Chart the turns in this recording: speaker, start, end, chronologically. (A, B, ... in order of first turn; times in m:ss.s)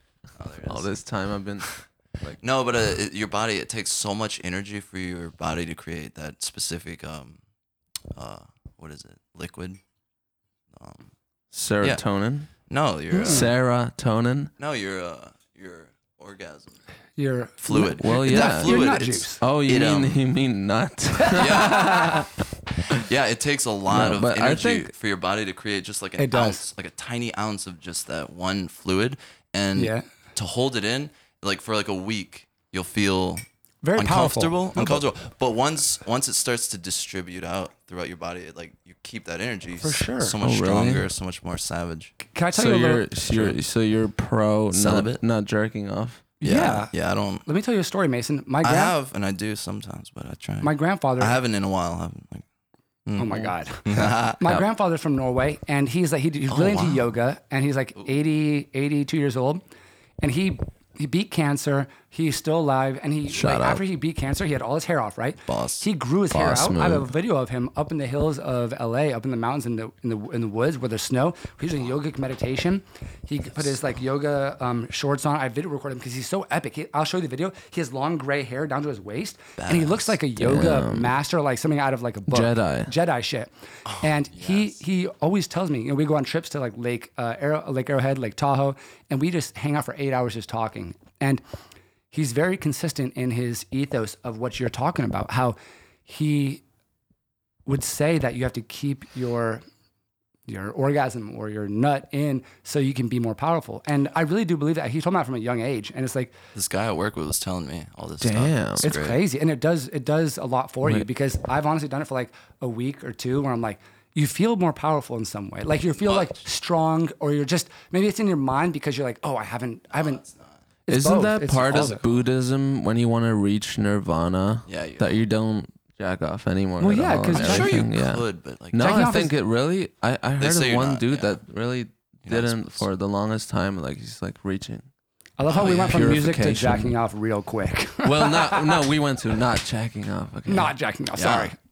0:00.4-0:00.9 A
0:00.6-0:02.4 B
0:02.4-0:07.4 A
0:08.1-0:09.8 A
0:10.7-0:11.1 A
0:11.5-0:12.5 B
0:12.6-0:13.5 A
0:13.1-0:13.5 C
0:13.2-0:14.5 B
0:14.6-0:16.8 A
0:17.2-0:19.4 C
0:17.6-0:20.2 A
0:18.0-0:18.8 B
0:19.4-0:22.3 B
0:21.2-0:22.2 C
0:21.4-0:22.2 A
0:22.9-0:33.4 A
0:23.9-0:24.9 B
0:26.2-0:26.7 C
0:29.8-0:30.0 C
0:33.8-0:35.0 C
0:34.0-0:42.1 A
0:39.8-0:40.3 C
0:40.4-0:41.1 B
0:42.3-0:43.0 C
0:42.5-0:46.2 B
0:43.2-0:43.6 A
0:44.7-0:45.2 A
0:46.4-0:46.9 C
0:46.4-0:47.4 A
0:47.4-0:48.9 C
0:48.6-0:52.4 A
0:50.6-0:51.4 C
0:53.0-0:54.6 A
0:53.2-0:59.6 C
0:56.5-0:57.1 A
1:00.2-1:31.4 C
1:03.3-1:03.8 B
1:05.5-1:05.8 A
1:06.3-1:07.1 B
1:19.6-1:20.2 A
1:20.4-1:21.2 B
1:22.3-1:22.9 B
1:23.9-1:24.8 A
1:32.1-1:36.6 C
1:37.6-1:39.6 C
1:40.5-1:46.3 C
1:46.5-1:49.2 A
1:48.2-1:48.8 B
1:48.8-2:00.2 C
1:56.0-1:56.4 A
1:59.9-2:00.5 A
2:00.9-2:02.0 C
2:00.9-2:14.9 B
2:01.6-2:02.2 A
2:04.7-2:05.1 A
2:06.8-2:07.9 C
2:07.4-2:08.9 A
2:08.8-2:09.3 C
2:10.4-2:11.4 A
2:12.2-2:12.9 A
2:15.4-2:18.8 C
2:15.5-2:16.9 B
2:15.6-2:15.9 A
2:18.0-2:20.7 B
2:20.5-2:21.6 C
2:21.2-2:21.5 A